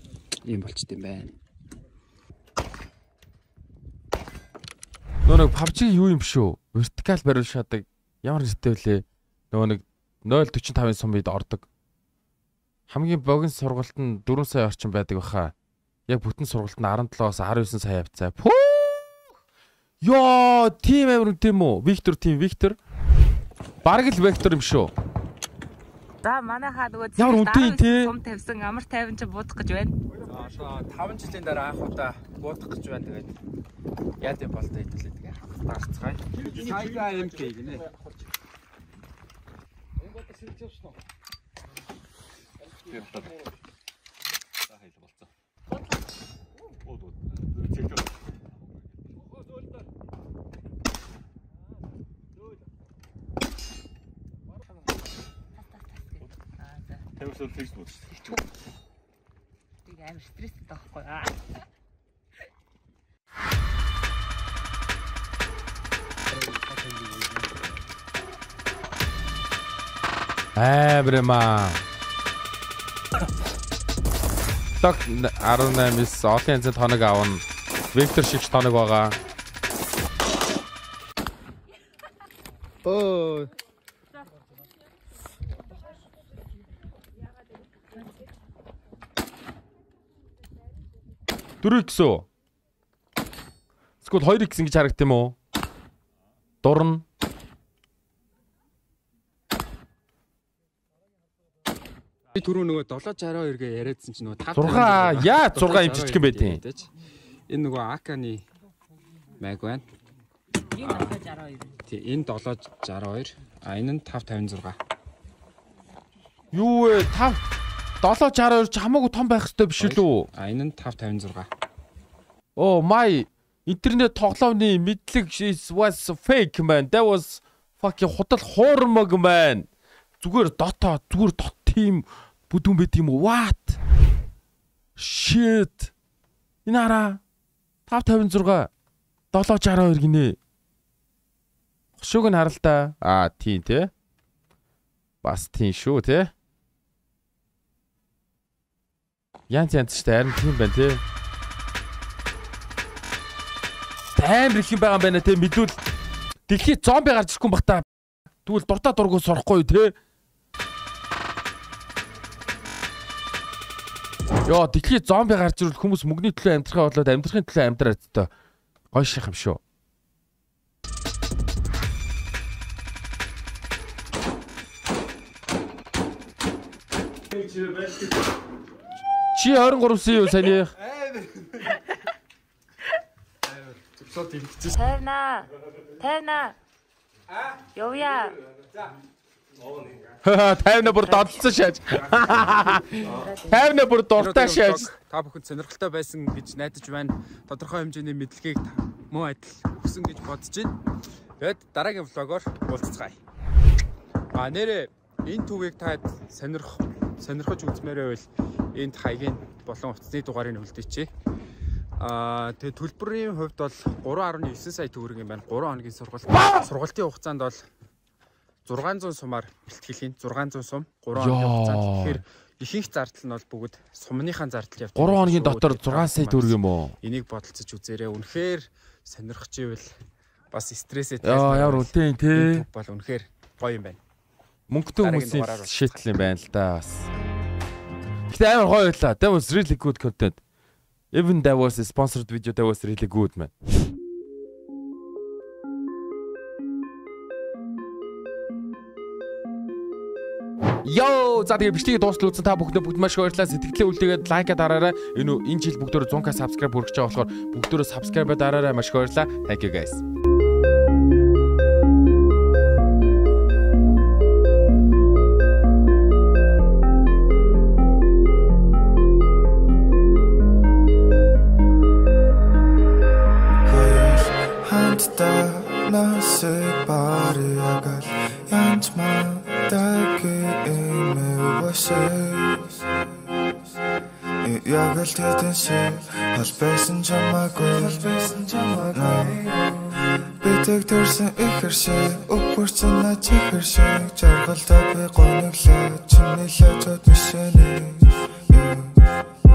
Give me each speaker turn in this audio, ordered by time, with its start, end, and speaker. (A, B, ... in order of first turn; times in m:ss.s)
0:00.4-0:01.4 A
0:05.2-0:11.6 B
0:12.9-0:15.5 B
0:16.1-0:19.2 B
0:20.0-0:22.8 B
0:23.8-0:24.9 B
0:26.2-0:30.0 C
0:27.2-0:28.1 B
0:30.2-0:33.4 A
0:34.2-0:37.9 A
0:42.8-0:43.4 D
0:44.7-0:45.3 D
0:46.8-0:48.5 D
0:55.6-0:57.0 C
0:57.2-0:58.1 D
0:59.9-1:01.3 C
1:06.3-1:07.7 A
1:10.6-1:11.8 B
1:14.8-1:19.2 B
1:22.9-1:23.5 A
1:31.6-1:32.3 B
1:34.0-1:35.4 B
1:36.6-1:37.0 B
1:42.4-1:46.9 A
1:44.5-1:46.6 B
1:47.5-1:48.5 A
1:49.4-1:49.9 A
1:50.8-1:51.2 A
1:50.8-1:51.7 C
1:51.8-1:54.8 A
1:56.5-1:57.4 B
1:58.0-2:00.3 B
1:59.8-2:01.5 A
2:02.6-2:09.7 B
2:10.2-2:13.8 B
2:15.0-2:15.9 B
2:16.6-2:17.2 B
2:17.9-2:18.7 B
2:19.3-2:20.4 B
2:22.0-2:23.9 B
2:25.2-2:26.3 B
2:29.5-2:31.0 B
2:34.1-2:35.8 B
2:36.5-2:37.8 B
2:38.4-2:39.9 B
2:44.4-2:48.3 B
2:48.9-2:49.6 B
2:59.3-3:00.7 B
3:03.8-3:04.8 A
3:04.7-3:06.6 C
3:07.7-3:08.4 C
3:10.2-3:14.9 B
3:11.0-3:11.6 C
3:12.8-3:13.7 C
3:14.2-3:20.8 A
3:21.4-3:23.2 A
3:24.3-3:31.1 A
3:32.0-3:37.7 A
3:38.7-3:49.9 A
3:41.1-3:42.2 B
3:45.0-3:46.9 B
3:50.5-3:54.0 A
3:51.2-3:52.6 B
3:54.7-3:57.1 B
3:54.9-3:56.0 A
3:58.3-4:00.4 B
4:01.1-4:03.5 B
4:10.8-4:20.0 B
4:33.6-4:42.8 E
4:44.4-4:59.0 E